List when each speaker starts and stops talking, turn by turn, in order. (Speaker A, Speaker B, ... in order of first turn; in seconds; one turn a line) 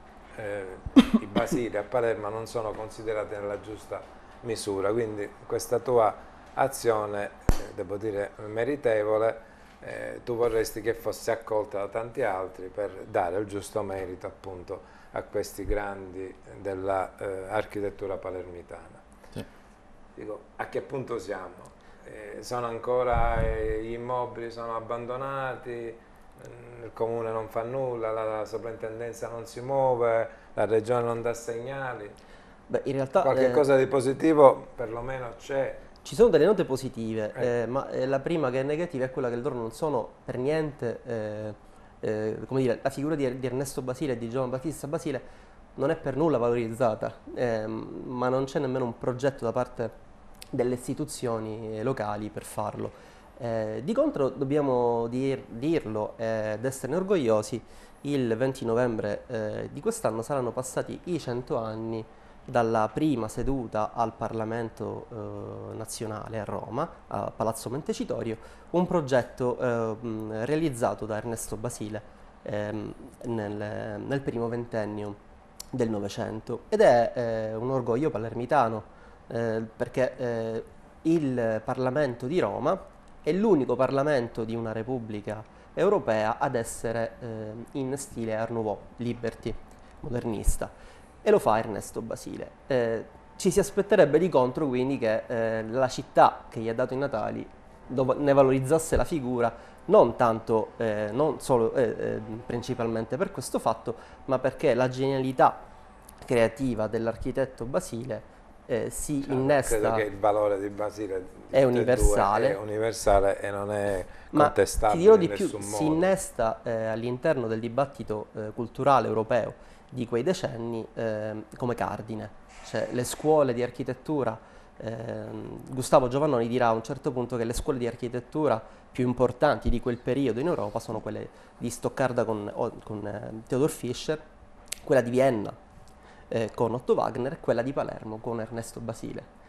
Speaker A: 0.4-19.0
Speaker A: 20.2-32.2
Speaker B: 32.7-33.7
Speaker A: 33.2-35.8
Speaker B: 36.0-45.2
Speaker B: 45.8-50.0
Speaker B: 50.5-75.2
Speaker B: 75.7-90.7
Speaker B: 91.2-105.7
Speaker B: 106.2-110.0
Speaker A: 109.2-116.1
Speaker B: 111.5-112.6
Speaker B: 114.3-134.2
Speaker B: 134.8-135.6
Speaker B: 136.3-139.3